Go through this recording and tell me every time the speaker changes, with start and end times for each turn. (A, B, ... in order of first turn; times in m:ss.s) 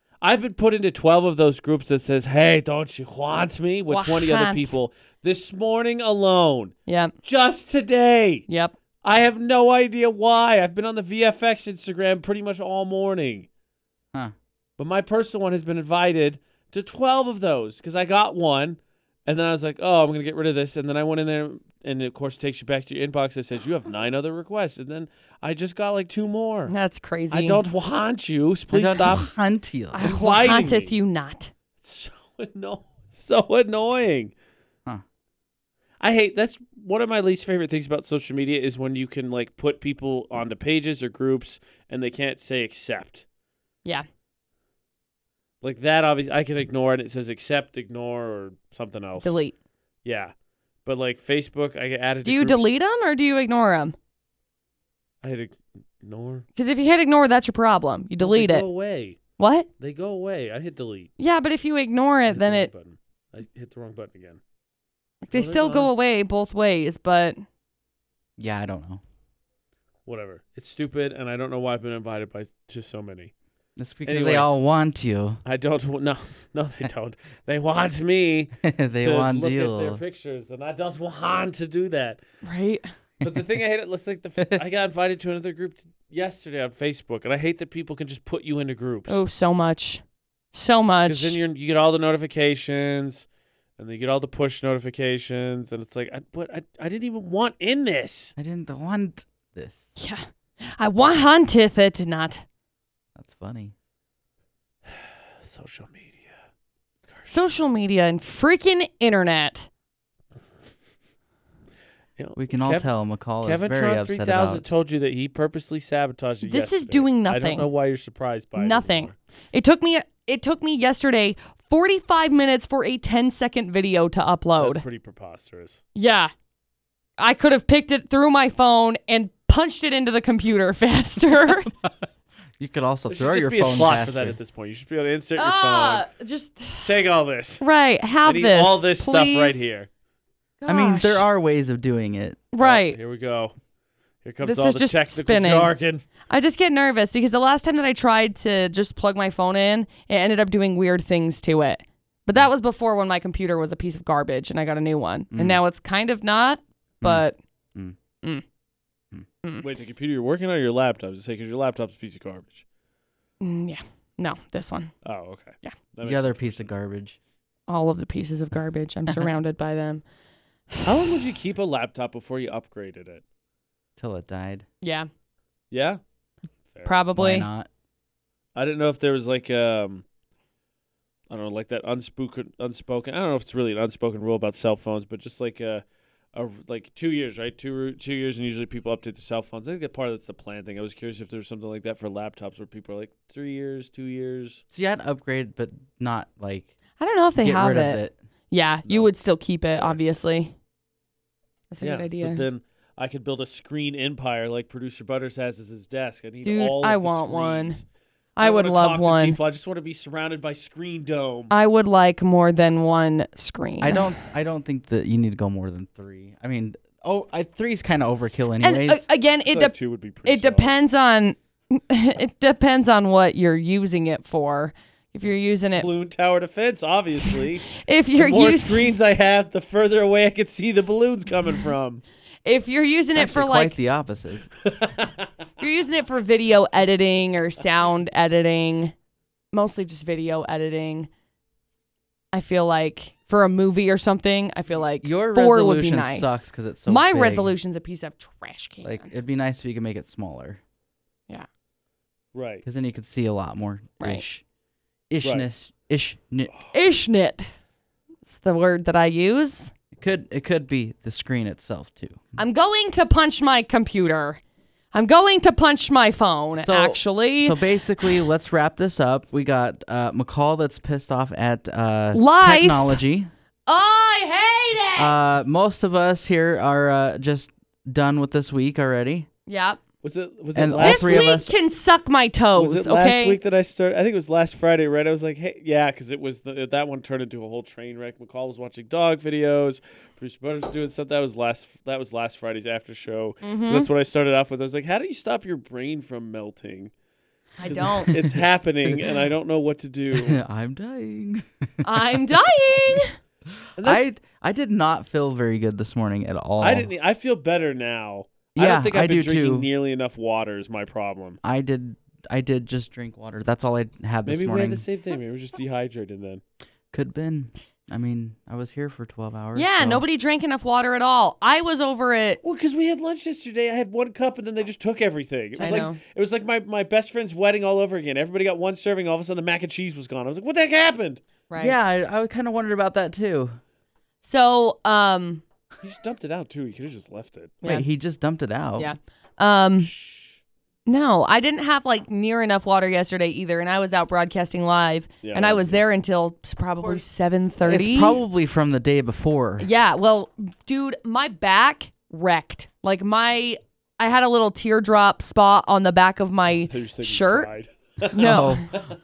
0:00.2-0:08.4 A
0:03.9-0:04.7 B
0:06.8-0:07.1 B
0:08.5-0:08.7 B
0:09.0-0:13.5 A
0:14.8-0:26.7 A
0:26.7-0:27.6 B
0:27.3-0:29.3 A
0:28.7-0:30.0 C
0:29.9-0:31.5 B
0:30.0-0:30.9 A
0:31.8-0:34.3 A
0:36.0-0:43.2 A
0:45.6-0:49.3 A
0:49.2-0:49.6 B
0:50.0-0:50.3 A
0:50.8-0:52.7 A
0:52.2-0:54.0 B
0:55.2-0:56.5 A
0:56.6-0:58.7 B
0:58.2-0:59.2 A
0:59.4-0:59.7 B
0:59.8-1:01.1 A
1:01.2-1:02.7 B
1:02.3-1:04.4 A
1:05.2-1:07.4 B
1:05.3-1:05.9 A
1:08.4-1:09.0 C
1:10.0-1:13.3 A
1:13.8-1:15.4 C
1:14.0-1:14.5 A
1:15.4-1:22.2 A
1:18.6-1:20.0 C
1:22.4-1:22.9 B
1:23.2-1:29.2 A
1:29.1-1:31.4 B
1:31.0-1:33.3 A
1:33.8-1:38.3 A
1:38.4-1:40.0 C
1:40.8-1:42.4 B
1:43.2-1:43.7 C
1:44.9-1:46.4 A
1:47.1-1:47.5 A
1:47.3-1:49.7 B
1:52.2-1:52.9 A
1:52.4-1:54.6 C
1:53.4-1:59.1 A
1:56.4-1:57.7 B
1:58.5-2:04.8 B
2:04.6-2:05.8 A
2:06.0-2:06.3 B
2:07.2-2:11.7 B
2:12.6-2:14.4 C
2:13.1-2:16.1 A
2:15.4-2:17.0 B
2:16.8-2:17.6 A
2:17.6-2:19.7 B
2:18.2-2:19.9 A
2:20.6-2:21.2 B
2:20.7-2:22.4 C
2:22.5-2:23.0 B
2:22.6-2:23.6 A
2:24.2-2:26.0 A
2:24.4-2:25.7 B
2:26.3-2:37.4 B
2:35.3-2:35.6 C
2:37.0-2:38.0 C
2:39.6-2:42.6 A
2:43.4-2:44.9 B
2:45.0-2:46.8 A
2:46.0-2:47.2 C
2:47.7-2:50.0 B
2:50.8-2:53.2 A
2:54.0-2:54.6 C
2:54.8-2:55.1 B
2:55.7-2:56.0 A
2:56.7-2:57.0 A
2:56.8-2:57.5 B
2:57.2-2:57.7 C
2:58.5-3:00.0 A
3:01.3-3:14.6 A
3:14.7-3:16.7 C
3:17.0-3:20.5 B
3:17.4-3:18.1 C
3:19.7-3:20.0 A
3:21.7-3:22.4 B
3:21.8-3:27.8 A
3:26.4-3:27.8 B
3:28.4-3:29.4 B
3:28.4-3:31.5 A
3:31.5-3:34.1 B
3:33.8-3:39.0 C
3:38.6-3:45.9 B
3:39.5-3:40.7 A
3:45.8-3:47.6 A
3:47.3-3:48.9 B
3:48.2-3:52.0 A
3:52.4-3:53.8 B
3:53.1-3:54.5 C
3:54.6-3:55.3 A
3:55.6-3:58.9 B
3:59.5-4:01.1 B
4:02.3-4:09.1 B
4:05.0-4:07.5 C
4:08.8-4:10.6 C
4:12.3-4:12.6 A
4:12.6-4:14.4 C
4:14.0-4:14.2 B
4:15.1-4:16.5 C
4:15.2-4:15.4 A
4:16.7-4:17.5 B
4:18.2-4:19.7 B
4:19.9-4:22.3 C
4:22.4-4:24.4 B
4:24.9-4:28.2 B
4:26.6-4:33.3 C
4:32.1-4:33.0 B
4:33.7-4:35.2 B
4:35.0-4:39.3 C
4:39.5-4:39.8 B
4:40.0-4:41.3 A
4:40.5-4:41.5 C
4:40.8-4:43.4 B
4:42.5-4:56.9 A
4:53.4-4:53.9 B
4:57.6-4:58.2 B
4:57.6-5:00.4 A
4:57.6-4:59.0 C
5:00.2-5:01.8 C
5:01.8-5:03.1 B
5:03.8-5:04.0 A
5:03.8-5:06.9 C
5:06.6-5:11.4 A
5:08.5-5:09.7 C
5:11.4-5:14.8 C
5:14.2-5:16.4 A
5:16.9-5:20.0 C
5:19.5-5:22.4 B
5:22.4-5:31.2 A
5:25.6-5:26.0 B
5:25.6-5:25.9 C
5:31.5-5:31.7 B
5:31.6-5:33.6 C
5:34.2-5:35.4 B
5:35.8-5:37.5 A
5:37.6-5:37.9 B
5:37.6-5:38.9 C
5:38.8-5:39.9 B
5:40.0-5:40.2 A
5:40.9-5:48.2 B
5:45.2-5:45.8 A
5:47.6-5:49.7 C
5:49.6-5:57.5 B
5:56.5-5:58.9 A
5:58.1-5:58.7 B
5:58.2-5:58.9 C